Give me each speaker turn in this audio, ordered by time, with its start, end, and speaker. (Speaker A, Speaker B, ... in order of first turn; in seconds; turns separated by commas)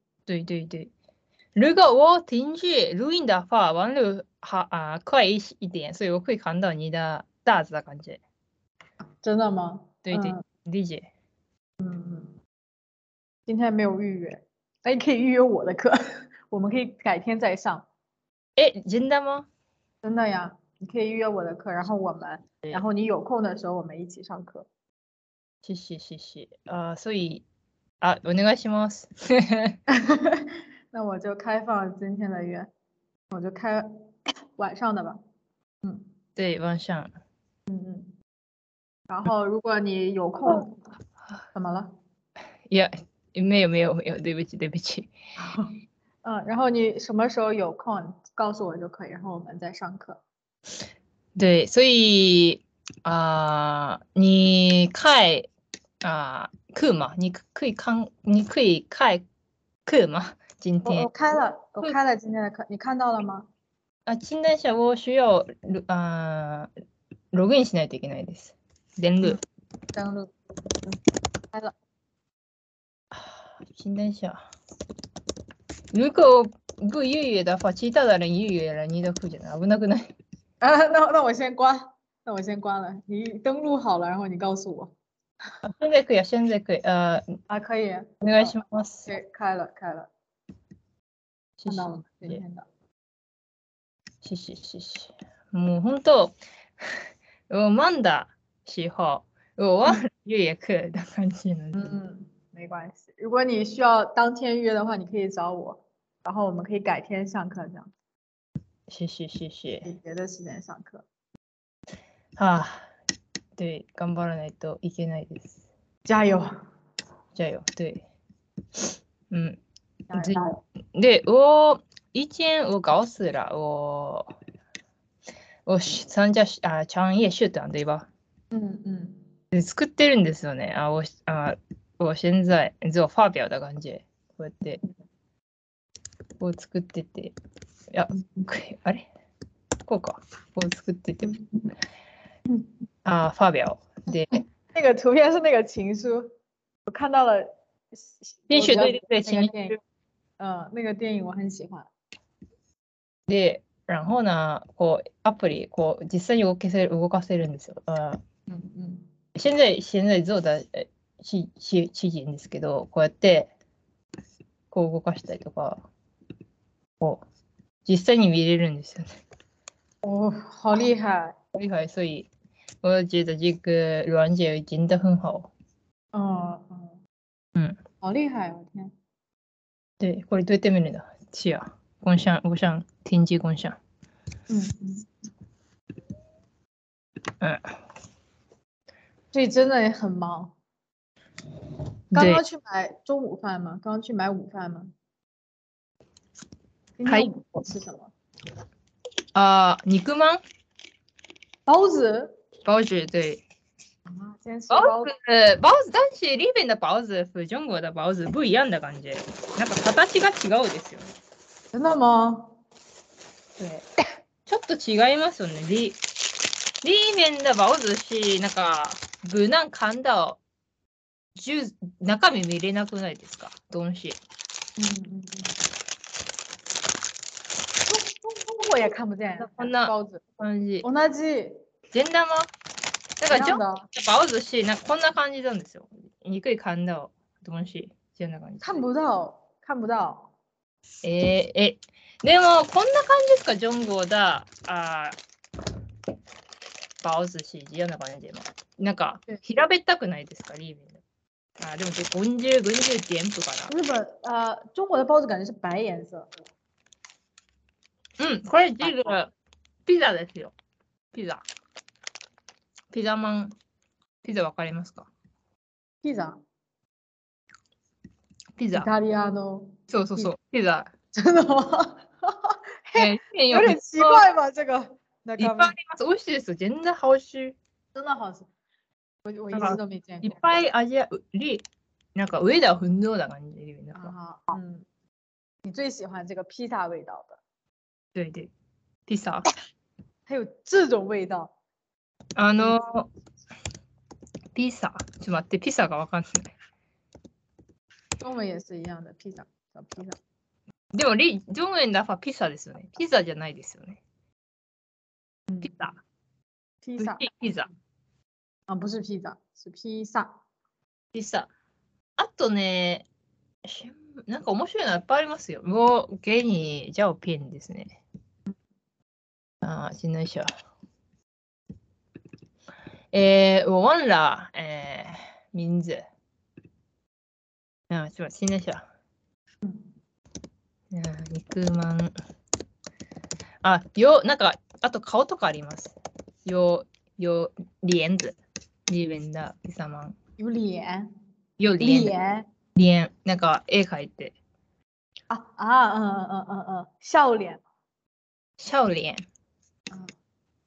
Speaker A: 0.3-0.9, Speaker A: 1.6-8.2, Speaker B: 9.1-10.4, Speaker A: 10.1-11.1, Speaker B: 11.8-12.4, Speaker B: 13.5-17.9, Speaker A: 18.6-19.5, Speaker B: 20.0-24.7, Speaker A: 25.6-27.4, Speaker A: 28.0-29.8, Speaker B: 29.9-32.7, Speaker B: 33.3-35.2, Speaker B: 35.8-36.1, Speaker A: 36.4-37.1, Speaker B: 37.7-38.1, Speaker B: 39.1-40.8, Speaker B: 41.5-42.0, Speaker A: 42.7-45.1, Speaker B: 45.4-50.2, Speaker A: 51.4-55.5, Speaker A: 56.0-59.2, Speaker A: 59.9-61.1, Speaker B: 60.9-63.5, Speaker A: 64.1-66.7, Speaker A: 67.3-69.4, Speaker B: 69.9-70.3, Speaker A: 73.1-74.4, Speaker A: 75.9-80.1, Speaker B: 80.6-84.9, Speaker A: 85.6-87.2, Speaker B: 87.5-88.5, Speaker A: 88.2-89.1, Speaker B: 89.1-90.1, Speaker A: 91.6-92.4, Speaker B: 91.7-92.7, Speaker A: 94.2-102.0, Speaker B: 101.7-107.9, Speaker A: 108.9-109.9, Speaker B: 109.8-111.0, Speaker A: 112.4-112.9, Speaker A: 113.6-115.6, Speaker B: 116.1-116.5, Speaker A: 117.3-118.1, Speaker A: 119.3-119.6, Speaker B: 120.1-120.6, Speaker A: 120.1-124.3, Speaker A: 125.7-128.1, Speaker B: 128.5-129.2, Speaker A: 129.5-134.8, Speaker A: 136.4-137.3, Speaker A: 137.9-139.1, Speaker A: 139.9-141.4, Speaker A: 143.1-144.3, Speaker B: 144.7-146.3, Speaker B: 146.9-149.8, Speaker A: 148.5-149.8, Speaker B: 150.4-151.9, Speaker A: 153.3-158.2, Speaker B: 158.5-159.1, Speaker A: 159.3-163.5, Speaker A: 164.7-165.8, Speaker A: 167.8-169.1, Speaker B: 170.0-171.3, Speaker A: 171.5-172.3, Speaker A: 172.8-175.5, Speaker B: 176.1-177.0, Speaker B: 178.0-178.9, Speaker A: 180.0-183.8, Speaker B: 184.5-185.1, Speaker B: 189.3-190.6, Speaker A: 192.1-192.4, Speaker B: 192.1-194.9, Speaker B: 197.0-198.1, Speaker A: 197.1-197.3, Speaker A: 199.3-200.4, Speaker B: 201.7-202.3, Speaker A: 202.7-203.4, Speaker B: 204.1-205.1, Speaker A: 204.7-211.1, Speaker B: 211.7-212.6, Speaker A: 213.6-213.9, Speaker A: 214.5-216.0, Speaker A: 216.8-220.4, Speaker A: 221.4-224.2, Speaker B: 224.8-225.6, Speaker B: 227.9-230.2, Speaker A: 229.4-230.9, Speaker B: 230.8-231.6, Speaker A: 231.9-232.5, Speaker A: 233.2-238.8, Speaker B: 233.3-233.9, Speaker B: 238.6-240.3, Speaker A: 241.0-245.2, Speaker A: 247.0-251.0, Speaker A: 251.6-253.7, Speaker B: 253.7-256.3, Speaker A: 258.2-259.3, Speaker A: 259.9-260.5, Speaker A: 261.1-261.4, Speaker A: 262.9-263.6, Speaker A: 264.2-265.1, Speaker B: 266.0-266.4, Speaker A: 268.6-268.9, Speaker B: 268.7-270.3, Speaker A: 269.9-270.9, Speaker B: 271.2-275.7, Speaker A: 272.9-274.2, Speaker A: 275.4-277.6, Speaker B: 277.9-278.5, Speaker B: 279.2-280.6, Speaker A: 279.5-281.6, Speaker A: 282.1-284.1, Speaker B: 283.9-284.9, Speaker B: 285.6-287.4, Speaker A: 288.1-288.5, Speaker A: 289.1-289.5, Speaker B: 290.3-291.5, Speaker A: 292.4-293.1, Speaker A: 294.6-296.5, Speaker B: 298.2-300.2, Speaker A: 300.9-304.0, Speaker A: 305.6-306.0, Speaker B: 306.8-307.3, Speaker A: 307.0-307.7, Speaker B: 308.7-310.4, Speaker A: 311.1-311.5, Speaker A: 312.2-313.1, Speaker A: 313.6-318.0, Speaker A: 319.6-320.5, Speaker A: 323.1-326.0, Speaker A: 327.9-328.9, Speaker A: 330.9-332.1, Speaker A: 333.6-340.1, Speaker B: 340.4-341.1, Speaker A: 341.6-342.1, Speaker B: 341.8-342.5, Speaker A: 342.8-344.4, Speaker B: 345.3-347.6, Speaker A: 348.6-349.3